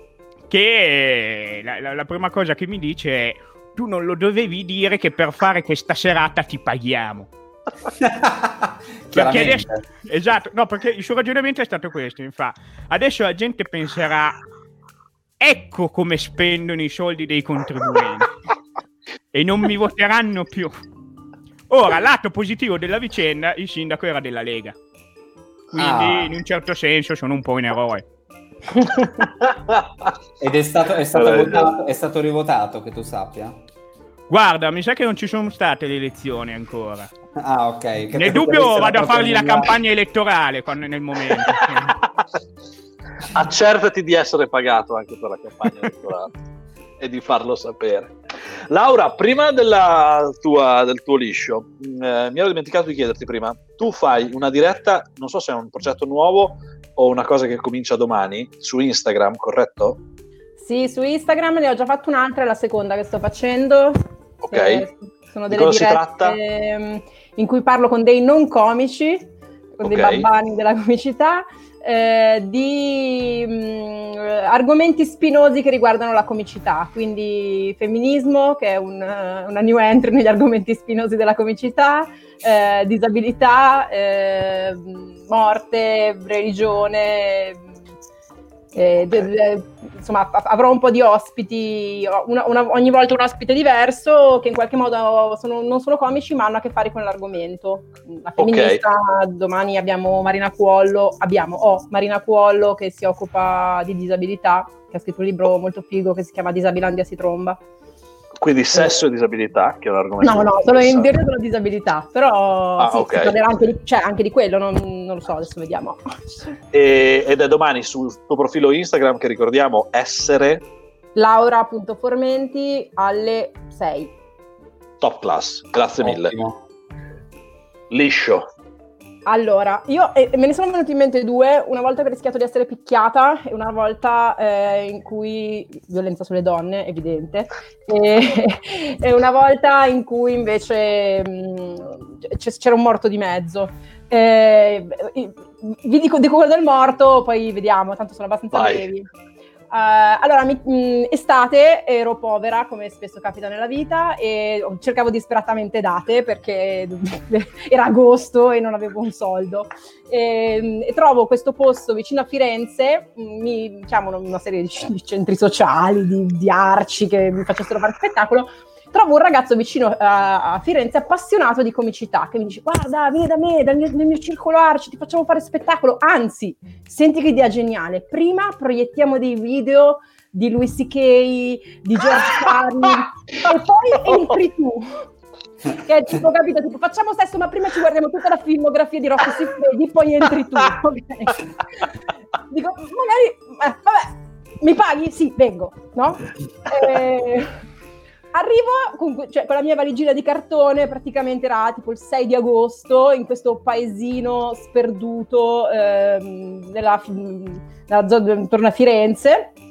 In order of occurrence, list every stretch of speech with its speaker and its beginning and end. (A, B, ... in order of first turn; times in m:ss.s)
0:00.5-0:07.3 A
0:08.0-0:09.8 B
0:09.1-0:14.4 A
0:15.4-0:18.4 A
0:19.3-0:20.7 A
0:21.7-0:24.7 A
0:25.7-0:28.0 A
0:25.8-0:26.3 B
0:29.2-0:30.1 C
0:30.4-0:33.6 B
0:31.1-0:31.7 C
0:34.3-0:37.1 A
0:37.4-0:39.8 B
0:38.1-0:42.0 A
0:43.3-0:46.3 C
0:47.0-0:48.1 C
0:48.7-1:00.0 C
1:00.6-1:04.0 D
1:04.4-1:04.8 C
1:04.5-1:09.3 D
1:05.5-1:06.4 C
1:09.8-1:27.7 D
1:09.8-1:10.3 C
1:28.7-1:47.6 D
1:38.4-1:38.8 C
1:48.4-1:51.1 C
1:48.7-1:49.0 D
1:50.2-1:56.6 D
1:52.8-1:53.4 C
1:56.7-2:00.6 C
2:01.1-2:04.1 D
2:05.0-2:06.4 C
2:06.0-2:06.6 B
2:07.9-2:08.5 C
2:09.2-2:29.1 D
2:28.5-2:28.9 C
2:29.7-3:05.1 D
3:05.7-3:11.9 D
3:12.5-3:17.5 D
3:18.3-3:29.5 D